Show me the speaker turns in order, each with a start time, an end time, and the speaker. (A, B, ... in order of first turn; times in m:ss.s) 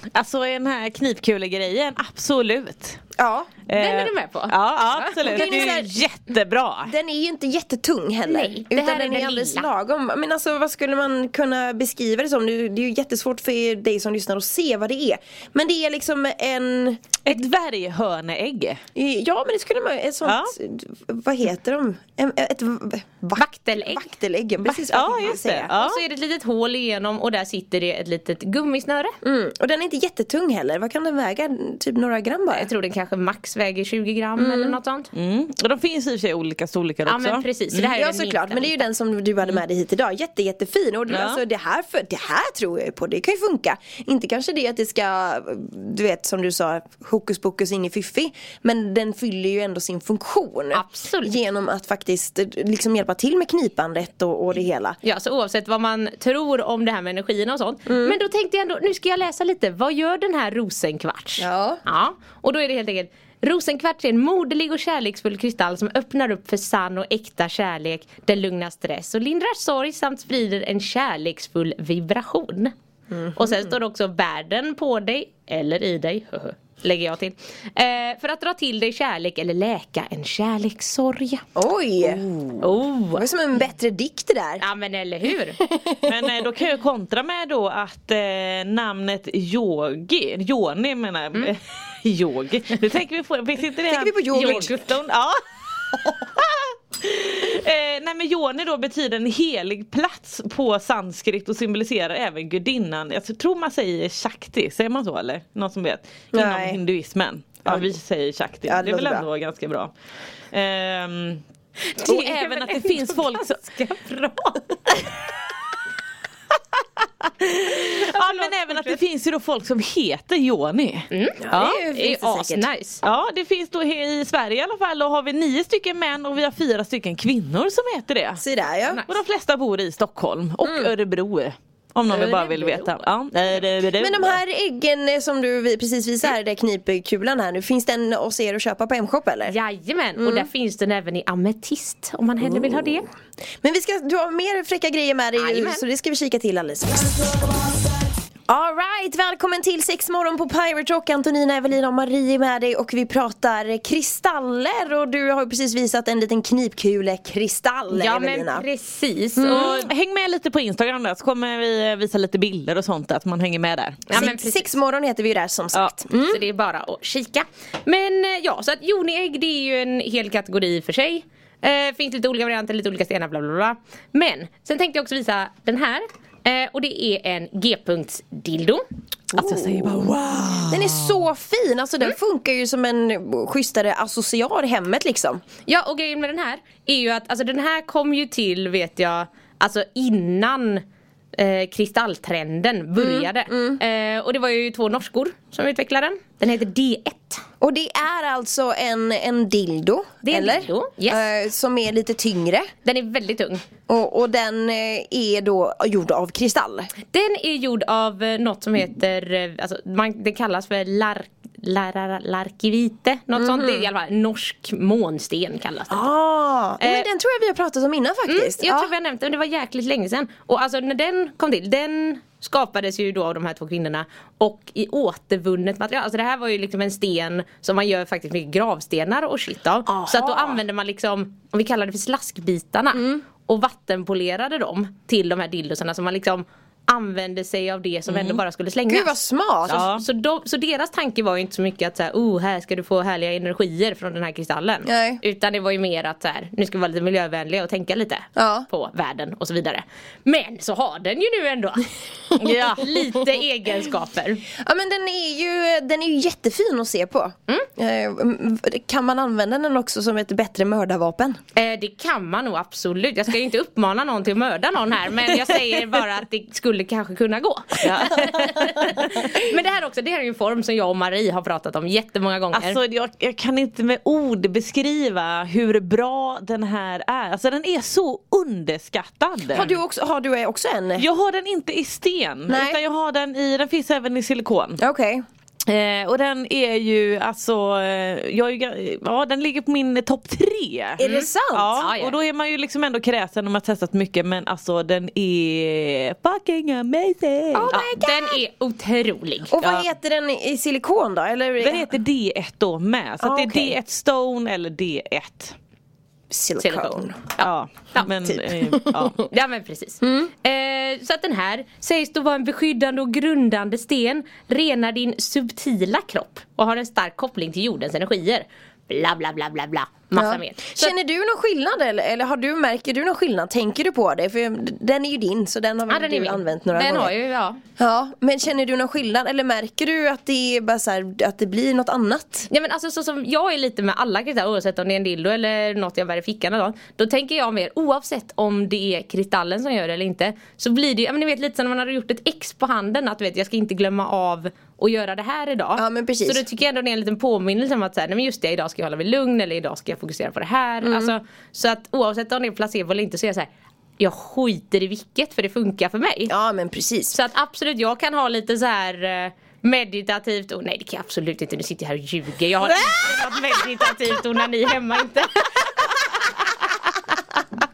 0:00.1-0:03.0 A
0:03.2-0:03.5 B
0:03.7-0:06.9 A
0:03.7-0:05.7 C
0:05.2-0:06.0 B
0:06.8-0:17.1 B
0:08.3-0:09.7 C
0:17.2-0:18.8 A
0:19.0-0:25.7 B
0:20.2-0:20.5 A
0:23.4-0:24.1 C
0:24.8-0:26.0 A
0:25.3-0:29.1 C
0:29.2-0:32.7 B
0:32.5-0:35.1 C
0:34.4-0:34.8 B
0:35.2-0:37.9 A
0:37.1-0:38.9 C
0:38.0-0:55.0 B
0:41.1-0:41.4 A
0:50.7-0:51.3 C
0:55.0-1:12.7 C
0:57.9-0:58.2 B
1:01.4-1:01.8 B
1:13.1-1:13.7 B
1:13.4-1:21.4 C
1:21.6-1:22.2 B
1:22.1-1:22.6 A
1:22.6-1:23.3 C
1:23.1-1:24.6 B
1:24.6-1:25.6 C
1:25.7-1:26.1 B
1:26.1-1:49.9 A
1:33.9-1:34.7 B
1:34.3-1:34.9 C
1:46.3-1:46.8 B
1:48.7-1:49.3 B
1:50.5-1:51.4 A
1:51.9-1:54.6 C
1:52.0-1:53.6 A
1:57.4-2:01.8 A
1:58.0-1:59.0 C
2:01.1-2:03.0 C
2:01.4-2:02.7 B
2:03.0-2:08.4 A
2:08.4-2:09.0 B
2:09.1-2:14.4 A
2:10.6-2:10.9 B
2:12.1-2:12.9 C
2:14.0-2:19.6 B
2:19.5-2:23.1 C
2:20.2-2:20.5 B
2:22.4-2:23.0 B
2:23.6-2:27.2 B
2:25.4-2:25.8 C
2:28.5-2:38.7 B
2:37.9-2:39.9 C
2:39.4-2:44.2 A
2:39.5-2:39.8 B
2:44.1-2:44.7 C
2:44.1-2:46.4 B
2:46.2-2:58.8 C
2:59.3-3:01.2 A
2:59.3-3:00.1 B
3:00.7-3:05.4 B
3:05.7-3:10.8 C
3:11.4-3:17.4 C
3:13.0-3:13.8 B
3:17.6-3:22.7 B
3:20.2-3:21.2 C
3:22.8-3:23.6 C
3:23.9-3:26.9 B
3:27.1-3:36.1 C
3:33.4-3:33.9 B
3:35.9-3:38.9 B
3:36.8-3:37.1 C
3:38.3-3:59.1 C
3:49.9-3:50.6 B
3:52.9-3:53.2 B
3:58.1-3:58.4 A
3:58.9-3:59.9 B
3:59.7-4:00.0 A
3:59.7-4:14.4 C
4:04.8-4:05.2 B
4:08.4-4:08.7 B
4:12.4-4:12.9 A
4:14.6-4:21.4 B
4:21.6-4:32.8 C
4:27.8-4:29.1 A
4:32.5-4:39.8 A
4:39.5-4:41.1 B
4:41.0-4:44.8 A
4:42.5-4:42.8 B
4:44.8-4:45.2 B
4:45.7-4:57.8 A
4:51.0-4:51.8 B
4:51.0-4:52.2 C
4:57.5-4:58.4 B
4:57.7-4:59.5 C
4:59.5-5:01.9 B
4:59.6-4:59.9 A
5:01.6-5:05.6 A
5:03.2-5:03.8 B
5:06.3-5:07.3 B
5:06.6-5:08.1 C
5:07.4-5:09.2 A
5:08.2-5:09.1 B
5:09.2-5:20.9 C
5:10.0-5:10.3 B
5:20.1-5:27.1 B
5:25.9-5:27.6 C
5:27.8-5:32.5 B
5:32.5-5:53.5 C
5:45.8-5:46.4 B
5:50.8-5:51.2 B
5:54.0-5:56.3 C
5:56.3-5:57.2 B
5:57.1-6:06.0 C
6:02.6-6:03.0 B